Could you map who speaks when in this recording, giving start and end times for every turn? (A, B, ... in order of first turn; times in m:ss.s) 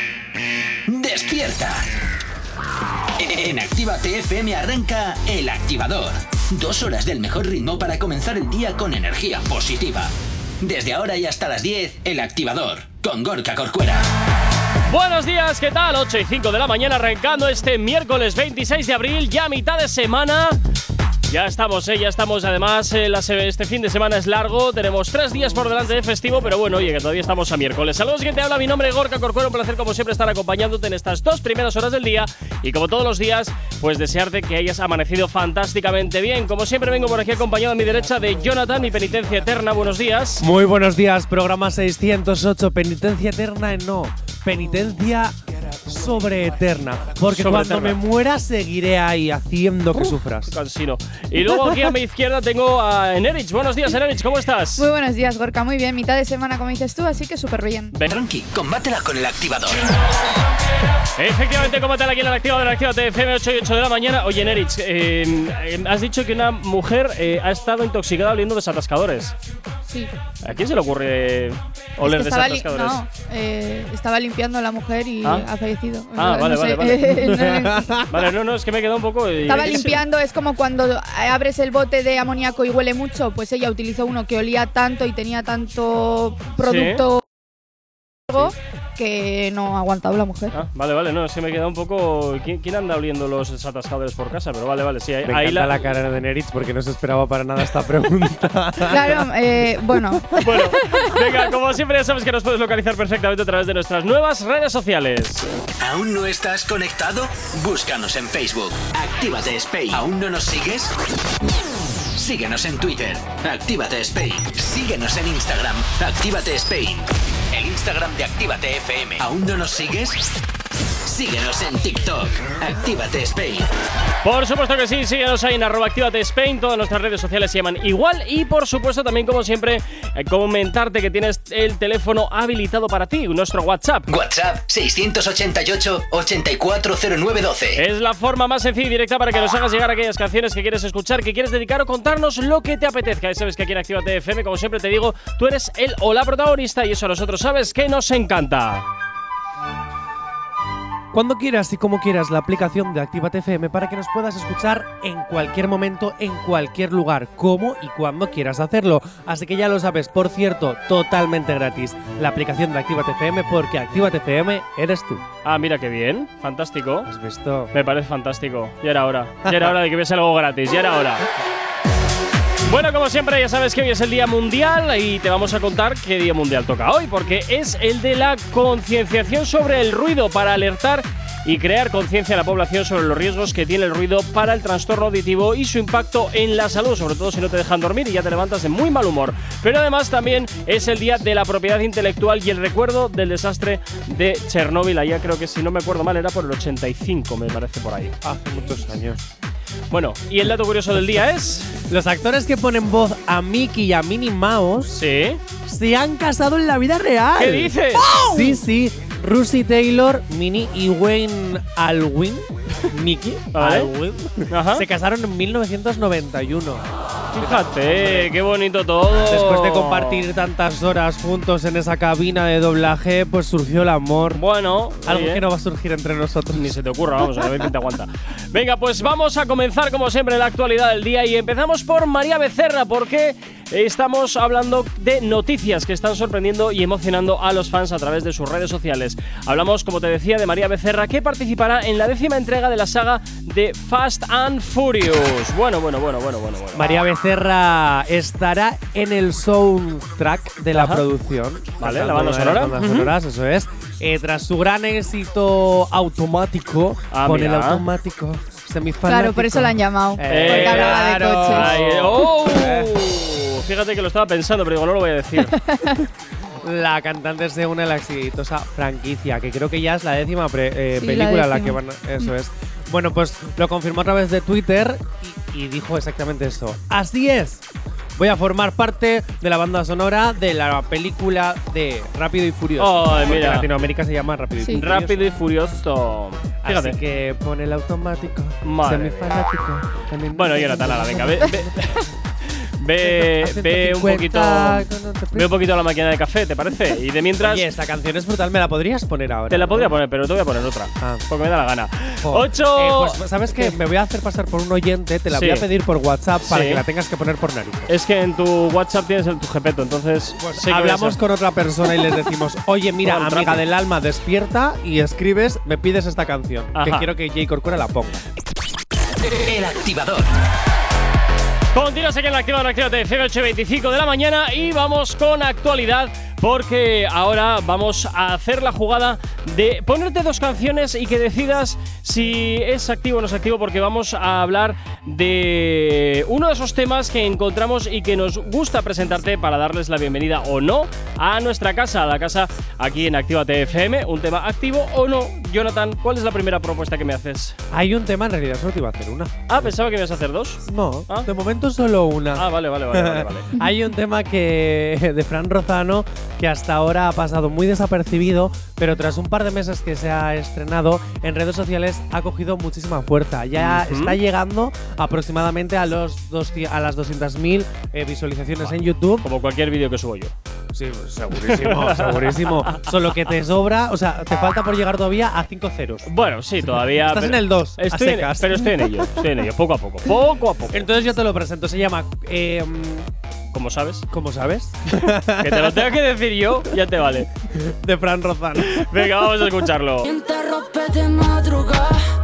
0:00.9-0:01.9 A
0:03.2-0:14.1 A
0:14.9-0:20.6 B
0:21.3-0:40.4 B
0:40.4-0:50.6 C
0:47.3-0:48.0 B
0:50.0-0:54.9 B
0:54.8-0:57.9 D
0:58.0-0:59.8 A
1:01.2-1:09.4 B
1:10.4-1:13.0 B
1:12.0-1:18.0 D
1:16.2-1:20.0 B
1:17.1-1:18.3 C
1:19.5-1:27.2 D
1:26.6-1:27.0 B
1:28.3-1:30.6 D
1:30.5-1:35.8 B
1:35.2-1:39.3 C
1:38.9-1:41.1 D
1:39.9-1:40.6 C
1:40.4-1:45.5 B
1:45.8-1:51.0 A
1:52.1-2:00.3 A
2:01.0-2:03.7 A
2:04.2-2:14.1 B
2:14.1-2:17.8 A
2:17.8-2:28.9 B
2:31.1-2:45.2 C
2:45.4-2:47.1 B
2:47.1-2:47.7 C
2:47.7-2:51.3 B
2:49.5-2:49.7 C
2:52.6-3:18.2 B
3:18.2-3:19.2 C
3:19.9-3:21.7 B
3:21.9-3:25.0 C
3:25.0-3:25.4 B
3:25.7-3:38.3 C
3:27.4-3:28.4 B
3:33.5-3:33.9 B
3:34.5-3:34.9 B
3:37.4-3:40.3 B
3:39.2-3:44.4 C
3:44.4-3:45.4 B
3:45.0-3:46.8 C
3:46.5-4:07.0 B
3:47.3-3:47.7 C
4:06.7-4:23.0 C
4:10.7-4:11.0 B
4:11.8-4:13.1 B
4:17.1-4:17.8 B
4:19.1-4:21.8 D
4:20.3-4:25.6 B
4:25.5-4:26.0 D
4:26.6-4:37.6 C
4:31.0-4:32.3 D
4:38.2-4:45.2 C
4:42.8-4:43.7 B
4:44.7-4:47.0 B
4:46.6-4:52.1 C
4:48.6-4:49.4 B
4:50.3-4:52.1 B
4:52.8-4:57.7 B
4:53.0-4:55.6 C
4:57.4-5:00.0 C
4:59.5-5:03.8 B
5:01.0-5:01.3 C
5:02.2-5:07.9 C
5:05.3-5:05.7 B
5:06.5-5:06.8 B
5:07.9-5:11.2 B
5:10.4-5:18.2 C
5:13.0-5:13.6 B
5:16.8-5:17.1 B
5:19.2-5:20.3 A
5:21.7-5:47.6 B
5:47.7-5:49.8 C
5:49.5-5:51.3 B
5:50.6-6:09.3 C
5:52.4-5:53.5 B
6:03.6-6:04.2 B
6:09.2-6:10.4 B
6:10.7-6:16.1 C
6:11.5-6:12.8 B
6:16.1-6:20.9 B
6:16.6-6:19.2 C
6:20.7-6:23.1 C
6:23.5-6:24.1 B
6:24.1-6:25.9 C
6:25.3-6:27.3 B
6:27.5-6:29.5 C
6:28.7-6:30.0 B
6:30.0-6:32.0 E